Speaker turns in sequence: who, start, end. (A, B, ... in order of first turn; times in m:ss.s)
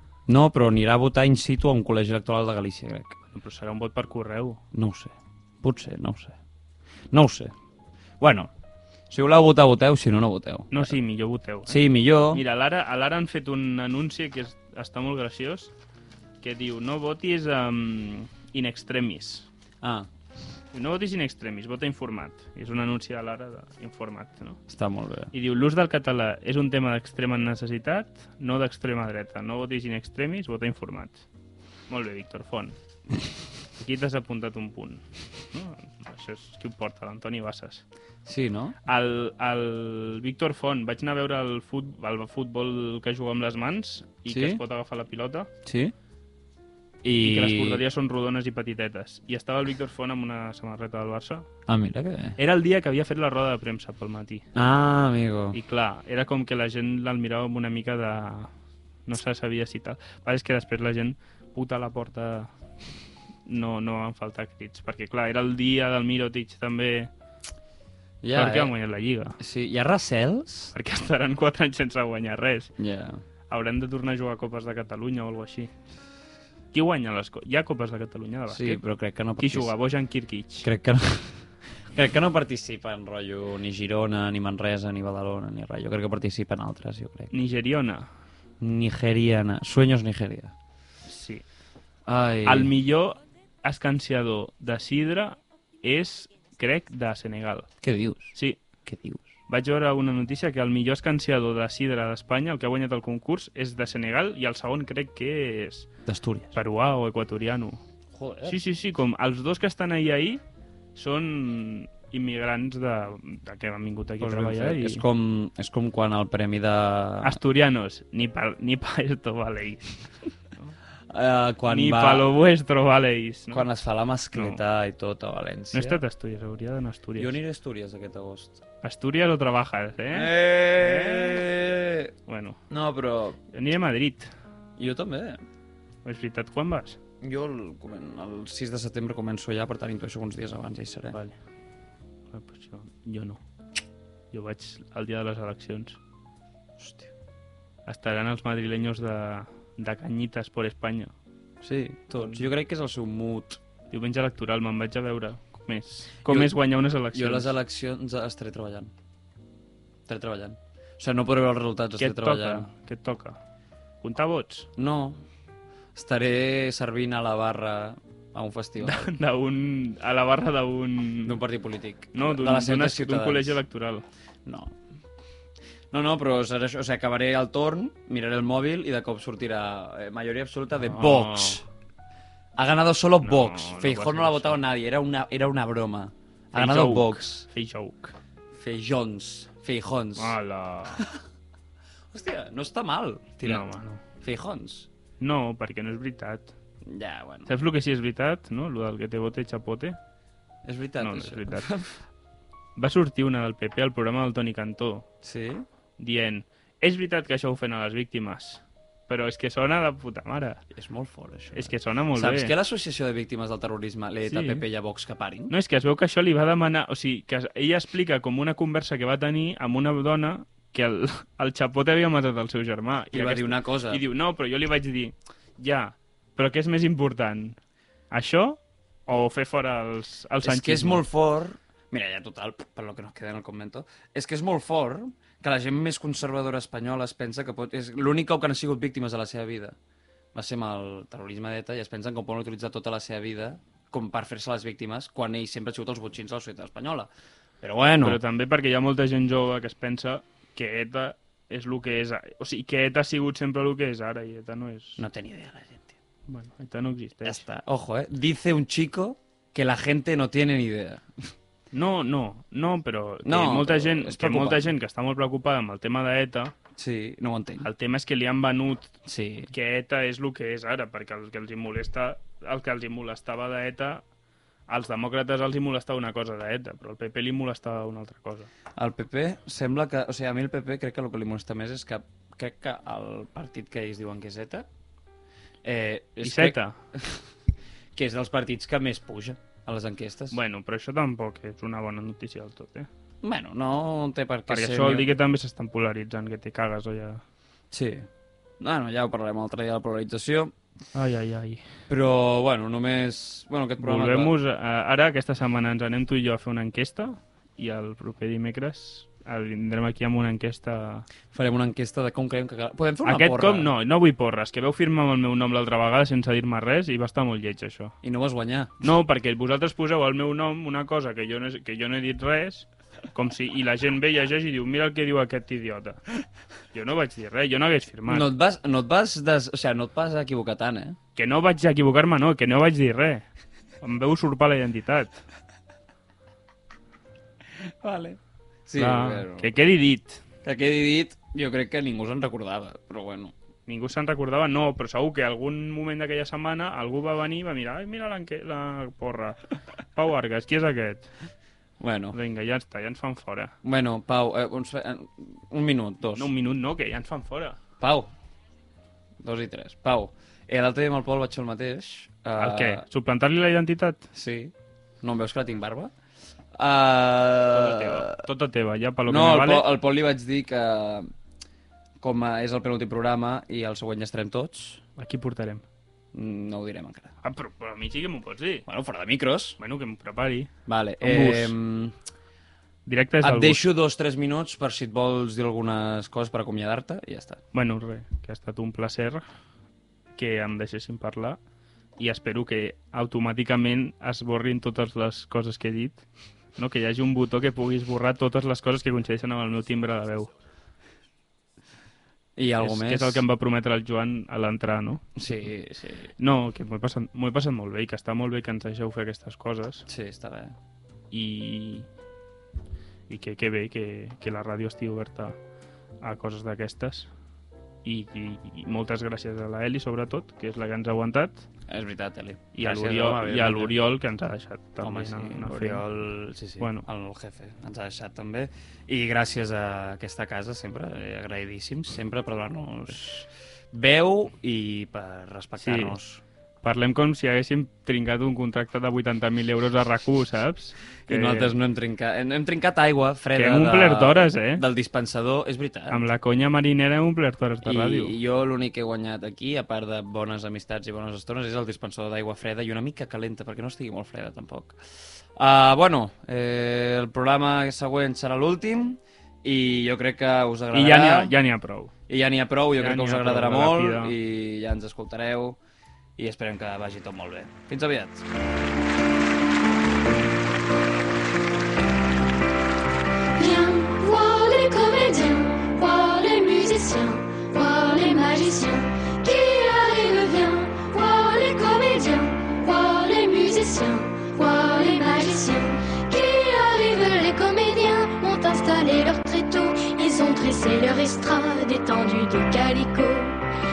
0:00.3-0:03.2 A
0:03.3-0:04.6 B
0:04.7-0:06.4 A
0:07.1-0:07.5 A
0:08.2-0:08.5 A
0:09.1-0:11.0 A
0:10.7-0:15.7 B
0:11.7-0:12.4 A
0:16.4-0:19.5 B
0:19.8-0:20.1 A
0:20.7-0:24.6 B
0:24.7-0:25.3 A
0:25.3-0:31.2 B
0:31.9-0:32.8 B
0:33.8-0:37.8 B
0:38.3-0:38.8 A
0:38.9-0:45.5 B
0:44.3-0:44.6 A
0:45.6-0:45.9 A
0:47.0-0:47.8 A
0:47.2-0:51.5 B
0:51.7-0:52.4 A
0:52.4-0:54.5 B
0:54.6-0:55.6 A
0:55.5-0:58.5 B
0:59.1-1:02.5 B
1:03.5-1:07.1 B
1:08.2-1:08.7 A
1:08.3-1:09.4 B
1:09.4-1:10.7 A
1:10.7-1:12.7 B
1:12.8-1:13.2 A
1:13.5-1:15.7 B
1:16.7-1:18.8 B
1:18.5-1:19.7 A
1:19.4-1:20.7 B
1:20.6-1:27.3 A
1:27.3-1:28.1 B
1:28.6-1:30.5 A
1:31.1-1:31.4 B
1:32.1-1:32.7 A
1:32.5-1:37.7 B
1:37.8-1:38.4 A
1:38.4-1:38.6 B
1:38.9-1:39.3 A
1:39.5-1:45.9 B
1:46.1-1:46.5 A
1:46.5-1:47.8 B
1:48.1-1:48.6 A
1:48.4-1:50.4 B
1:51.0-1:55.0 B
1:54.2-1:57.4 A
1:57.2-2:00.0 B
2:01.1-2:02.3 A
2:01.7-2:03.7 B
2:03.5-2:06.0 A
2:04.3-2:04.6 B
2:05.7-2:07.4 B
2:07.2-2:08.6 A
2:08.8-2:11.5 B
2:10.1-2:12.1 A
2:12.3-2:12.6 B
2:12.7-2:13.4 A
2:13.5-2:14.3 B
2:14.8-2:15.4 A
2:16.0-2:17.0 B
2:17.2-2:21.2 A
2:21.1-2:21.4 B
2:22.3-2:23.4 B
2:24.3-2:26.0 B
2:26.8-2:27.1 A
2:27.9-2:31.1 B
2:31.6-2:33.6 A
2:32.2-2:32.5 B
2:33.9-2:37.5 B
2:36.2-2:36.5 A
2:37.1-2:38.9 A
2:40.1-2:42.7 A
2:42.0-2:43.4 B
2:44.0-2:44.7 B
2:44.8-2:45.2 A
2:46.0-2:49.1 A
2:48.8-2:51.4 B
2:51.2-2:53.6 A
2:52.1-2:54.1 B
2:54.5-2:54.8 A
2:55.9-3:01.6 A
3:00.8-3:01.6 B
3:02.6-3:07.4 A
3:03.2-3:04.6 B
3:06.5-3:08.2 B
3:08.6-3:10.4 A
3:10.2-3:11.0 B
3:10.9-3:11.2 A
3:12.1-3:13.7 A
3:13.4-3:14.0 B
3:14.2-3:14.9 A
3:15.2-3:16.5 B
3:16.9-3:17.6 A
3:17.5-3:20.0 B
3:20.6-3:22.0 A
3:21.0-3:21.7 B
3:22.8-3:25.1 B
3:25.2-3:25.7 A
3:26.0-3:30.6 B
3:30.7-3:35.5 A
3:31.5-3:32.5 B
3:34.3-3:34.7 B
3:35.5-3:47.6 B
3:43.1-3:44.0 A
3:48.1-3:51.0 B
3:50.4-3:59.8 A
4:00.3-4:07.1 A
4:07.6-4:08.2 A
4:08.0-4:15.0 B
4:15.0-4:15.9 A
4:16.3-4:17.4 B
4:17.2-4:21.3 A
4:21.7-4:26.6 B
4:23.2-4:24.7 A
4:26.8-4:27.7 A
4:27.6-4:28.9 B
4:29.1-4:29.5 A
4:29.5-4:34.0 B
4:34.7-4:38.5 B
4:38.8-4:44.7 A
4:45.6-4:47.2 A
4:46.2-4:46.8 B
4:48.0-4:50.4 A
4:50.3-4:52.9 B
4:53.2-4:55.1 A
4:54.5-4:57.2 B
4:57.7-4:58.1 A
4:58.6-5:00.5 A
5:00.9-5:01.7 B
5:01.9-5:04.3 A
5:03.8-5:11.1 B
5:11.3-5:13.7 A
5:13.0-5:18.0 B
5:18.0-5:18.7 A
5:18.8-5:26.0 B
5:26.7-5:28.3 B
5:28.1-5:31.0 A
5:31.2-5:33.3 B
5:33.8-5:35.2 B
5:37.8-5:39.5 A
5:38.8-5:40.2 B
5:40.4-5:43.3 A
5:43.7-5:49.4 B
5:49.9-5:51.1 B
5:51.8-5:52.2 A
5:52.1-5:53.6 B
5:53.6-5:56.3 A
5:56.2-5:57.6 B
5:57.8-5:58.1 A
5:59.2-6:02.8 A
6:02.4-6:04.1 B
6:04.1-6:05.9 A
6:06.6-6:08.2 A
6:07.5-6:09.7 B
6:09.1-6:11.1 A
6:12.0-6:14.8 A
6:15.0-6:15.6 B
6:16.1-6:17.2 A
6:17.2-6:18.6 B
6:18.7-6:19.6 A
6:19.6-6:21.6 B
6:20.7-6:22.0 A
6:22.9-6:23.6 B
6:23.2-6:27.4 A
6:27.5-6:29.2 B
6:30.2-6:31.4 B
6:32.0-6:36.0 B
6:36.6-6:40.3 B
6:42.4-6:43.3 A
6:42.6-6:45.2 B
6:45.2-6:46.1 A
6:46.2-6:49.8 B
6:49.9-6:50.6 A
6:51.1-6:51.9 B
6:53.1-6:55.4 B
6:56.0-6:57.1 B
6:57.8-7:01.4 B
7:01.7-7:03.8 A
7:02.5-7:05.8 B
7:04.8-7:16.2 A
7:06.6-7:06.9 B
7:15.6-7:16.0 B
7:16.6-7:21.6 B
7:21.1-7:26.0 A
7:23.3-7:24.6 B
7:25.9-7:28.2 B
7:27.6-7:34.8 A
7:35.4-7:41.3 A
7:40.7-7:41.9 B
7:42.1-7:45.6 A
7:42.7-7:44.2 B
7:46.2-7:48.3 A
7:53.4-8:13.4 C